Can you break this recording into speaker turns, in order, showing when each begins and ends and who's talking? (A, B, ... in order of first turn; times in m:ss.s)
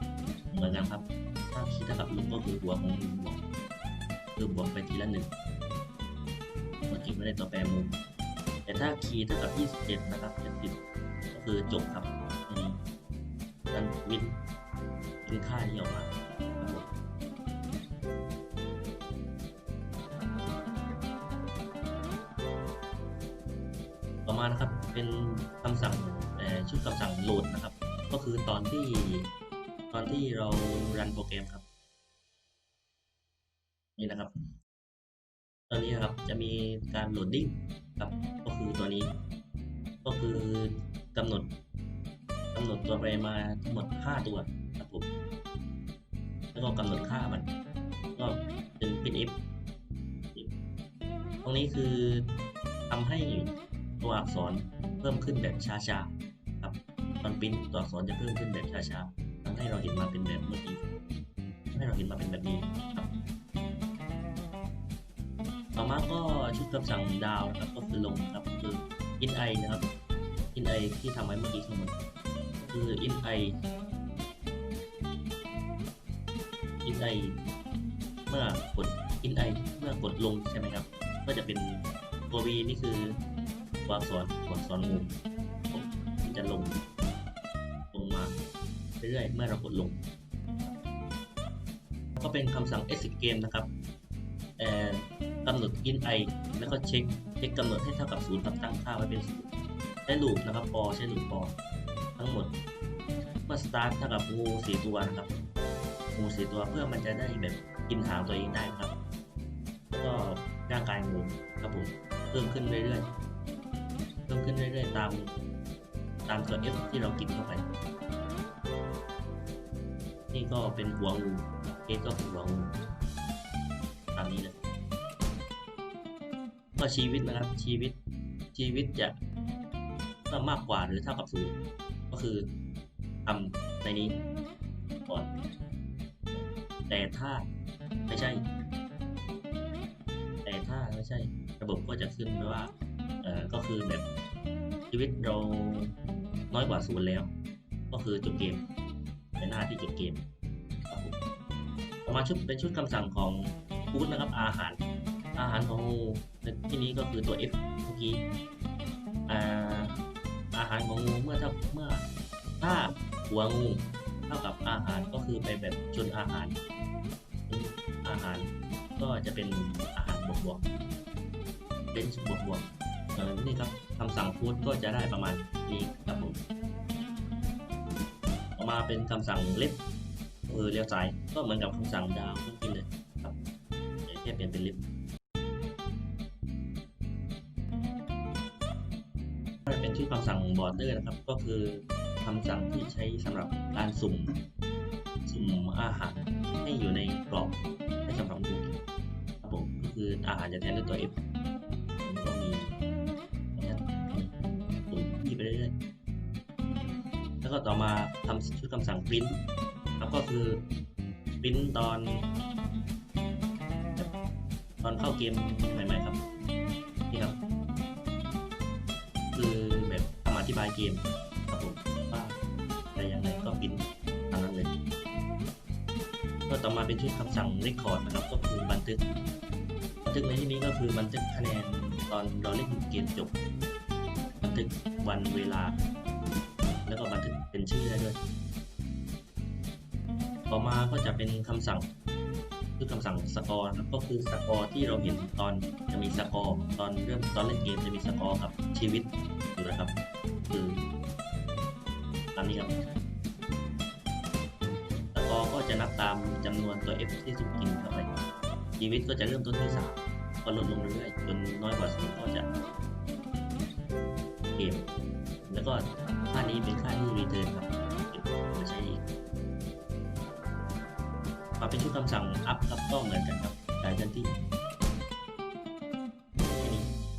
0:00.5-0:03.4 A
0:04.4-0:05.3 A
0:06.9-0:08.0 A
0:08.6-0:12.8 A
0:13.7-0:14.4 A
0:15.2-0:16.9 A
0:24.2-0:29.3 A
0:29.9-0:31.6 A
0:34.0-0:34.3 A
0:35.7-0:39.2 A
0:40.0-0:41.5 A
0:42.5-0:45.1 A
0:46.5-0:47.5 A
0:48.1-0:49.4 A
0:51.4-0:52.3 A
0:52.9-1:00.8 A
1:01.7-1:03.1 A
1:05.8-1:09.9 A
1:10.5-1:12.0 A
1:12.6-1:13.5 A
1:16.8-1:17.4 A
1:18.3-1:23.2 A
1:23.8-1:25.1 A
1:25.7-1:26.8 A
1:27.9-1:28.4 A
1:29.0-1:30.0 A
1:32.1-1:33.7 A
1:34.6-1:39.5 A
1:40.0-1:41.6 A
1:42.2-1:42.6 A
1:43.5-1:45.4 A
1:46.1-1:48.9 A
1:49.9-1:53.1 A
1:54.3-1:55.4 A
1:56.2-1:57.7 A
2:00.3-2:02.7 A
2:04.1-2:04.6 A
2:06.8-2:08.0 A
2:08.5-2:09.2 A
2:10.3-2:12.5 A
2:13.2-2:14.2 A
2:15.0-2:15.3 A
2:16.3-2:17.4 A
2:18.1-2:18.4 A
2:20.4-2:24.1 A
2:24.9-2:25.9 A
2:26.5-2:27.3 A
2:27.9-2:28.7 A
2:29.4-2:30.2 A
2:30.9-2:31.2 A
2:32.0-2:34.8 A
2:35.4-2:38.2 A
2:39.3-2:40.0 A
2:40.5-2:42.1 A
2:42.6-2:46.6 A
2:47.5-2:50.6 A
2:51.9-2:56.4 A
2:58.6-2:59.8 A
3:00.4-3:03.4 A
3:04.0-3:04.9 A
3:09.7-3:14.4 A
3:15.2-3:18.8 A
3:19.4-3:21.2 A
3:22.0-3:22.8 A
3:23.5-3:24.3 A
3:24.9-3:25.8 A
3:27.4-3:29.4 A
3:30.0-3:30.6 A
3:31.4-3:32.3 A
3:34.8-3:36.2 A
3:37.1-3:37.4 A
3:39.3-3:42.4 A
3:42.9-3:44.7 A
3:46.5-3:49.0 A
3:50.0-3:53.4 A
3:54.4-3:55.8 A
3:56.7-3:58.2 A
4:00.5-4:01.9 A
4:02.8-4:10.0 A
4:10.5-4:10.8 A
4:12.3-4:12.8 A
4:15.1-4:18.1 A
4:18.8-4:22.5 A
4:24.6-4:24.9 A
4:25.4-4:29.0 A
4:31.6-4:34.3 A
4:36.6-4:36.9 A